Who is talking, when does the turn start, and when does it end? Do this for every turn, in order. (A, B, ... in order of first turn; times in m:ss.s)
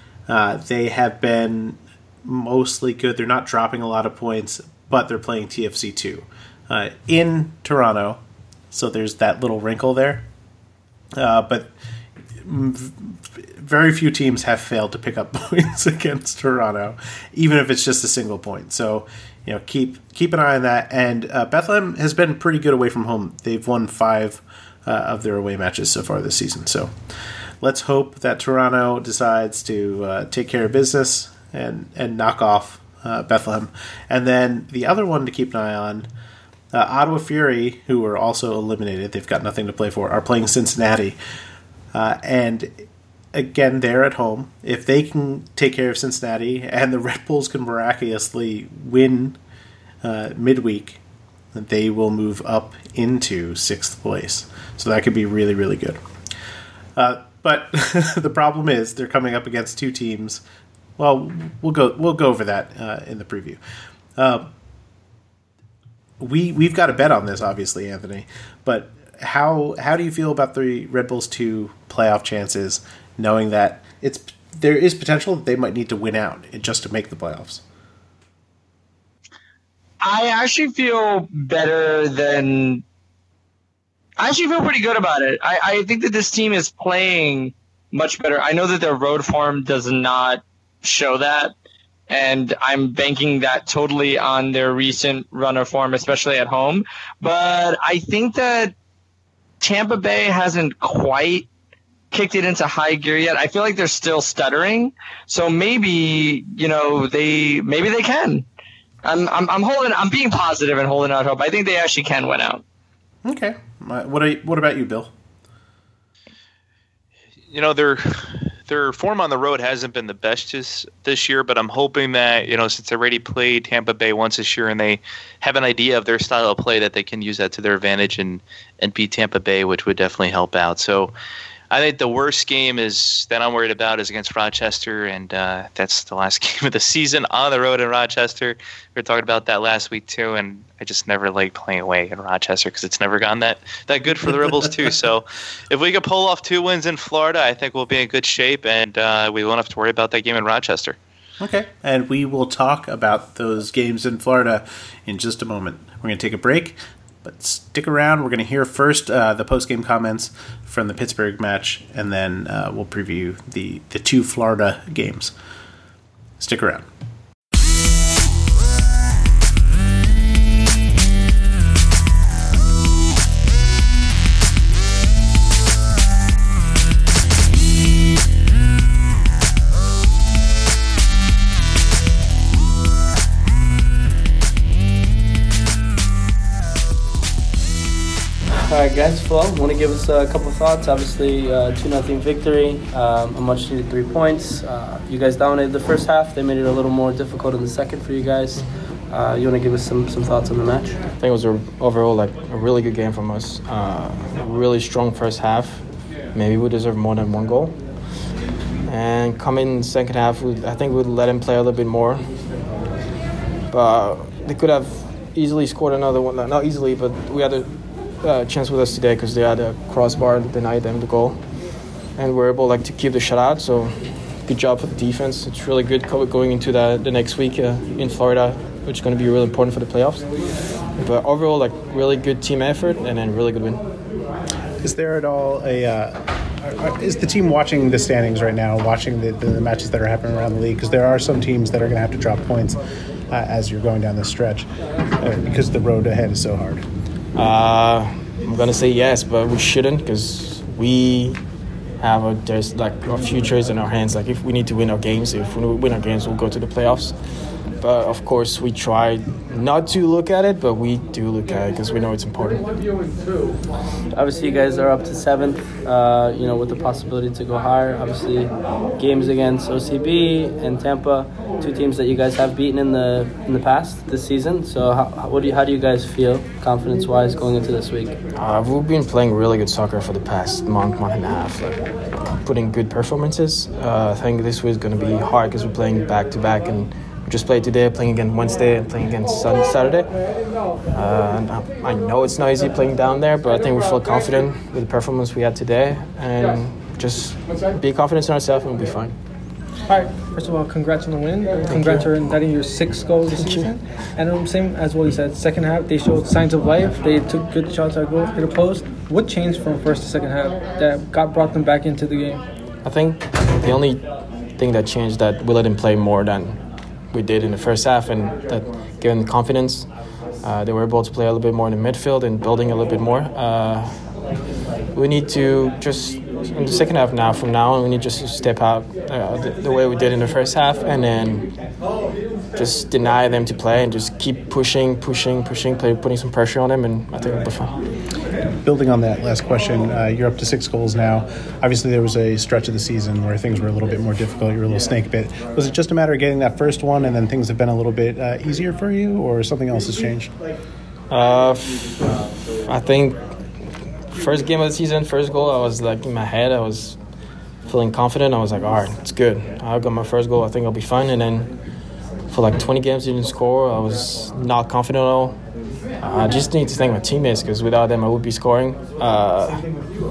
0:00.3-0:08.2 A
0:08.7-0:10.2 A
0:11.2-0:11.7 A
0:12.4-0:26.9 A
0:27.6-0:36.1 A
0:36.7-0:41.2 A
0:41.9-0:49.4 A
0:50.0-0:51.0 A
0:51.5-0:56.0 A
0:57.0-1:00.4 A
1:01.0-1:03.6 A
1:04.2-1:04.5 A
1:06.2-1:17.6 A
1:20.0-1:22.8 B
1:24.2-1:31.5 B
1:32.1-1:38.7 B
1:39.6-1:41.5 B
1:42.1-1:48.4 B
1:49.0-1:52.6 B
1:53.2-1:55.1 A
1:57.5-2:11.1 C
2:11.7-2:31.0 C
2:24.2-2:24.6 A
2:31.4-2:45.3 A
2:46.4-2:46.8 A
3:08.6-3:21.0 D
3:21.2-3:27.8 E
3:28.8-3:32.2 E
3:33.7-3:41.4 E
3:42.2-3:50.3 E
3:51.0-3:53.8 E
3:54.8-4:06.8 A
4:07.3-4:11.4 E
4:12.0-4:17.2 E
4:17.8-4:22.7 E
4:24.1-4:38.2 D
4:38.4-4:50.1 E
4:50.9-4:59.1 E
4:59.8-5:12.4 F
5:01.7-5:02.1 E
5:03.3-5:03.7 E
5:12.8-5:19.9 E
5:20.4-5:24.1 E
5:24.9-5:31.5 E
5:32.5-5:37.8 E
5:38.6-5:50.3 A
5:51.1-5:52.1 E
5:52.6-5:53.2 E
5:54.1-5:57.0 E
5:57.6-6:01.5 E
6:02.3-6:05.4 E
6:06.0-6:09.7 E